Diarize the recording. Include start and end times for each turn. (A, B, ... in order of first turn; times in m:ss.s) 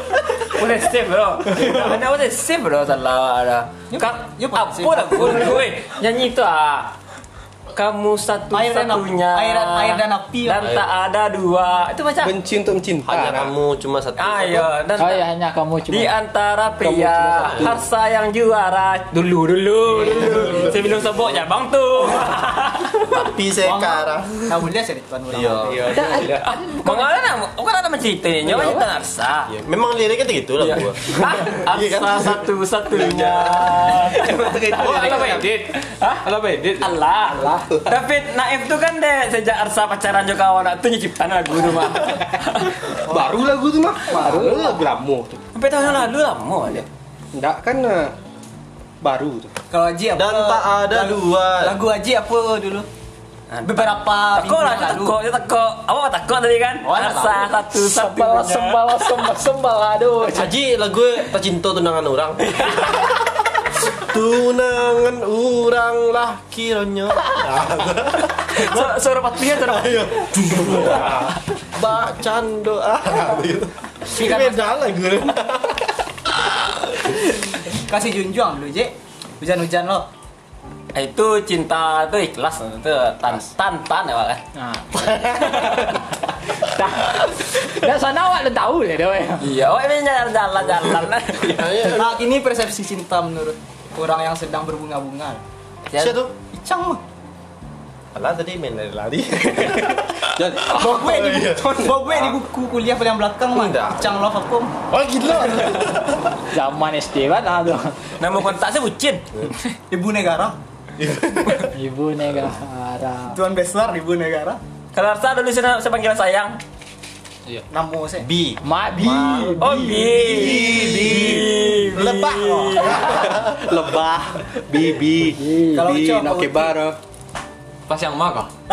0:00.4-0:06.9 A
0:03.9-0:05.6 B
0:07.7-0:12.4 A
0:08.5-0:10.7 B
0:12.2-0:13.5 C
0:13.1-0:14.7 D
0:14.2-0:15.3 A
0:15.0-0:16.1 E
0:15.9-0:23.3 A
0:16.8-0:17.8 C
0:20.2-0:20.6 D
0:23.1-0:24.5 D
0:23.6-0:25.9 B
0:25.3-0:25.9 D
0:25.7-0:26.5 F
0:25.9-0:27.2 E
0:26.7-0:29.5 A
0:29.5-0:32.5 D
0:30.6-0:36.2 A
0:33.0-0:35.5 C
0:33.1-0:33.4 D
0:34.7-0:37.0 F
0:36.8-0:43.0 A
0:37.3-0:37.7 E
0:43.0-0:45.4 C
0:43.1-0:43.3 B
0:44.1-0:44.8 E
0:44.2-0:44.6 B
0:45.6-0:46.9 A
0:47.3-0:48.1 C
0:49.0-0:49.5 C
0:49.7-0:52.9 B
0:50.2-0:51.8 D
0:53.5-0:59.1 A
0:53.6-0:55.2 B
0:56.8-0:57.6 B
0:57.7-1:00.5 E
1:00.2-1:09.0 D
1:08.5-1:10.2 A
1:09.5-1:15.9 D
1:14.2-1:14.9 B
1:17.7-1:20.1 B
1:20.9-1:24.4 A
1:24.6-1:26.0 E
1:26.6-1:29.5 E
1:29.4-1:31.7 A
1:31.4-1:32.2 D
1:31.8-1:35.4 B
1:35.9-1:36.4 D
1:36.5-1:37.0 B
1:38.1-1:42.4 D
1:39.6-1:42.0 C
1:40.7-1:44.7 B
1:43.5-1:44.2 D
1:44.9-1:46.2 D
1:45.5-1:45.7 B
1:46.5-1:48.0 E
1:48.2-1:49.2 A
1:49.9-1:50.6 B
1:51.0-1:51.7 D
1:51.7-1:53.4 E
1:53.3-1:54.6 B
1:54.9-1:56.6 A
1:57.7-1:58.3 B
1:58.2-1:59.5 D
1:58.6-2:00.0 E
1:59.6-2:03.2 A
2:00.1-2:03.6 D
2:00.4-2:01.3 B
2:00.8-2:01.3 C
2:01.9-2:03.0 B
2:03.0-2:07.0 C
2:05.4-2:05.9 E
2:05.7-2:06.8 B
2:07.9-2:08.5 F